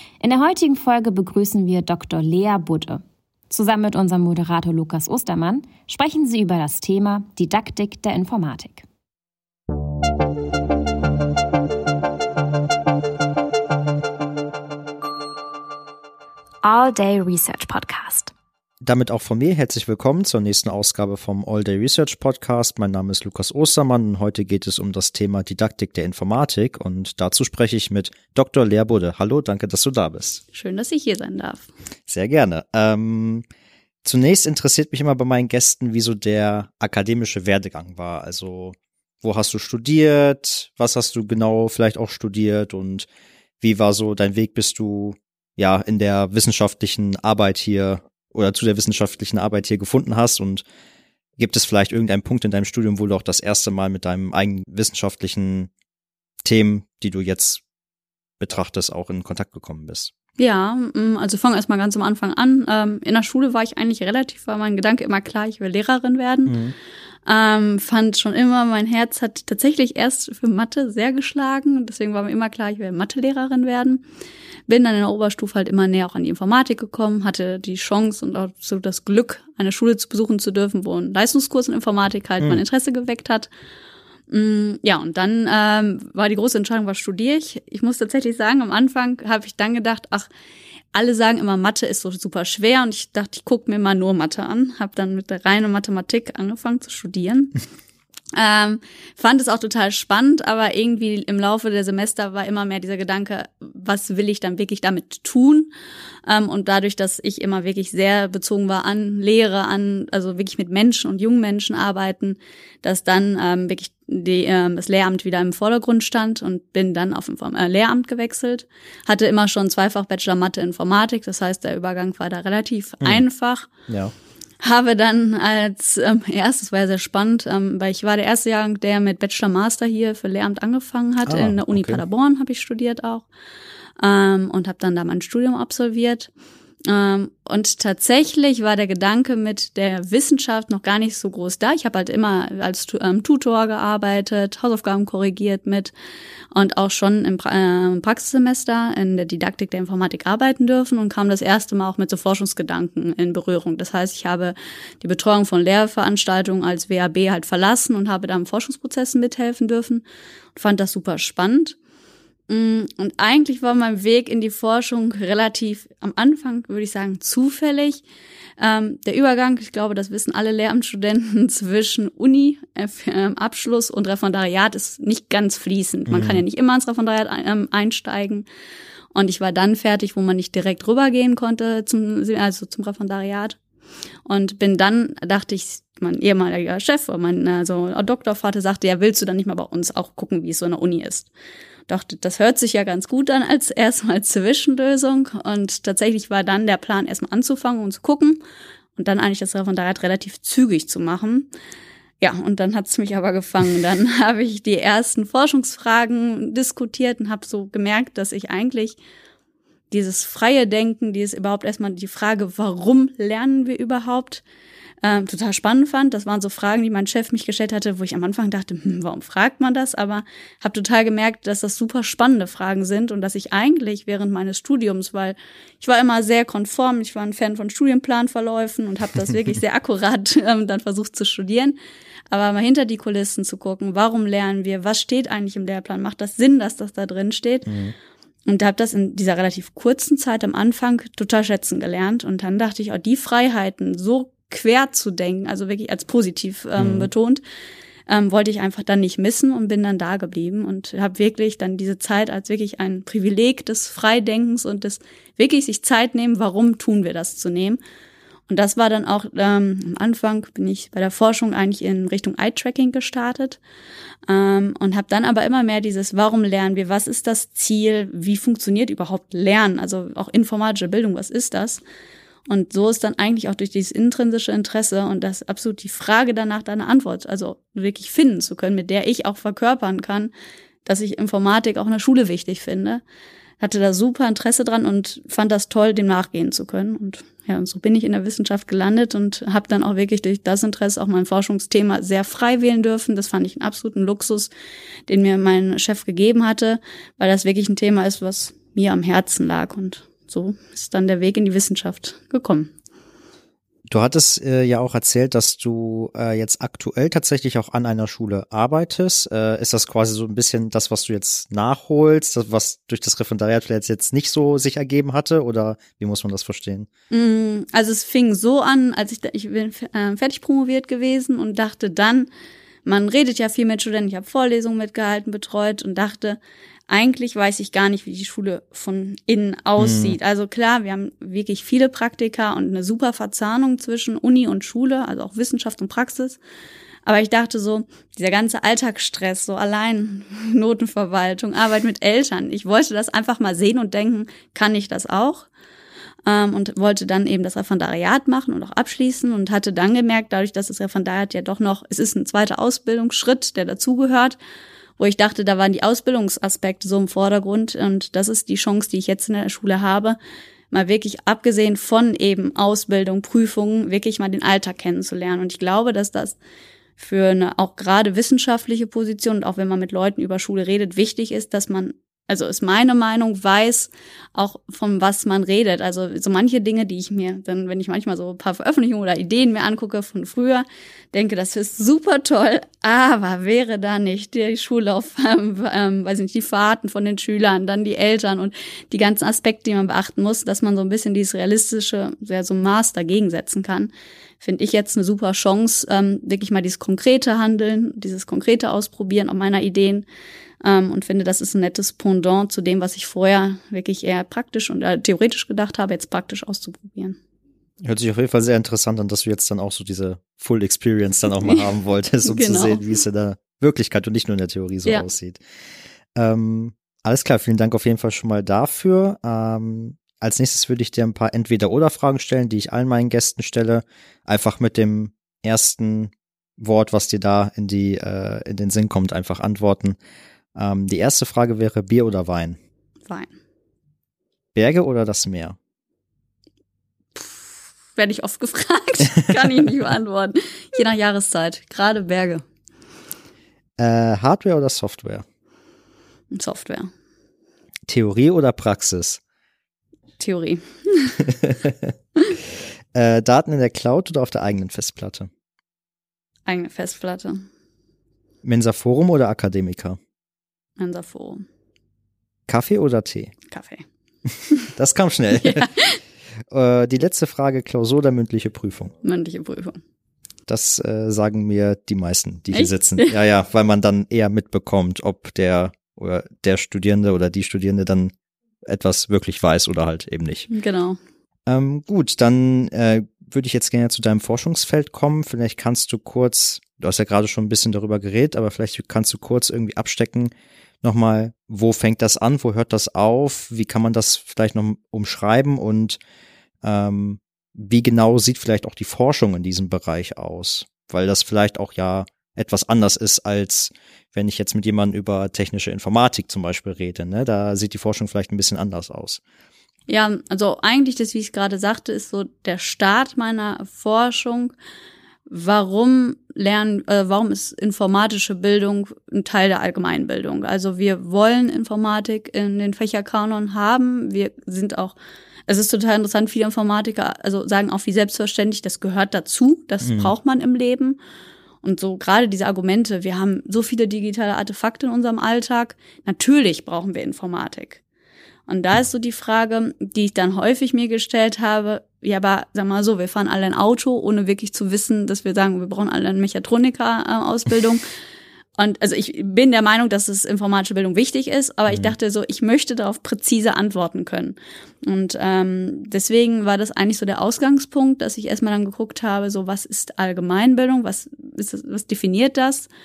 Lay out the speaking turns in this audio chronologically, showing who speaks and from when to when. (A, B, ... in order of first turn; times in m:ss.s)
0:00.2-0:08.8 A
0:16.6-0:18.3 A
0:18.8-0:30.4 B
0:30.5-0:31.7 C
0:32.1-0:33.4 B
0:34.0-0:43.1 B
0:43.6-0:50.6 B
0:51.4-0:55.7 B
0:56.4-0:57.6 B
0:58.4-1:00.1 B
1:00.4-1:06.6 C
1:06.5-1:06.7 B
1:07.3-1:14.0 C
1:14.7-1:23.5 C
1:24.3-1:30.3 C
1:30.9-1:37.5 C
1:38.3-1:45.7 C
1:46.3-2:03.7 C
2:03.9-2:04.1 B
2:04.6-2:13.3 C
2:11.2-2:12.0 B
2:14.0-2:16.3 C
2:16.8-2:25.9 C
2:26.5-2:40.0 C
2:40.6-2:41.8 C
2:42.5-2:48.0 C
2:48.6-2:58.5 C
2:56.1-2:56.4 B
2:59.1-3:03.6 C
3:04.2-3:11.3 C
3:11.9-3:18.4 C
3:19.0-3:21.5 C
3:22.2-3:29.0 C
3:29.9-3:34.4 C
3:35.0-3:51.8 C
3:52.3-3:57.7 C
3:57.7-3:57.9 B
3:58.5-4:07.4 C
4:06.8-4:07.1 B
4:08.1-4:17.8 C
4:18.5-4:23.6 C
4:24.3-4:31.8 C
4:32.5-4:40.3 C
4:40.8-4:43.0 C
4:43.6-4:54.5 C
4:55.1-5:02.7 C
5:03.9-5:16.9 B
5:17.1-5:22.3 C
5:22.8-5:36.4 C
5:29.8-5:30.2 B
5:37.0-5:45.5 C
5:46.2-5:54.4 C
5:55.0-6:00.2 C
6:00.7-6:06.4 C
6:07.0-6:40.0 C
6:40.6-6:47.2 C
6:47.8-6:55.4 B
6:51.4-6:51.7 C
6:52.2-6:52.8 C
6:56.1-7:10.0 B
7:10.5-7:12.6 B
7:14.5-7:15.6 B
7:17.2-7:22.4 C
7:23.8-7:25.2 B
7:26.3-7:26.9 C
7:27.9-7:29.2 B
7:30.2-7:31.2 C
7:31.5-7:31.9 B
7:32.9-7:35.3 B
7:36.5-7:37.4 C
7:38.4-7:40.0 B
7:40.8-7:41.4 C
7:42.5-7:43.3 B
7:43.5-7:43.8 C
7:44.7-7:45.7 B
7:45.3-7:46.0 C
7:46.5-7:48.9 B
7:49.0-7:49.8 C
7:50.5-7:58.1 B
7:52.5-7:53.2 C
7:58.6-8:00.5 B
8:00.5-8:01.0 C
8:01.5-8:10.3 B
8:10.8-8:16.0 B
8:16.6-8:29.2 B
8:29.9-8:34.5 C
8:35.3-8:45.0 C
8:45.5-8:51.0 C
8:49.8-8:50.1 B
8:51.6-8:57.8 C
8:58.5-9:07.8 C
9:08.6-9:22.7 C
9:11.7-9:11.9 B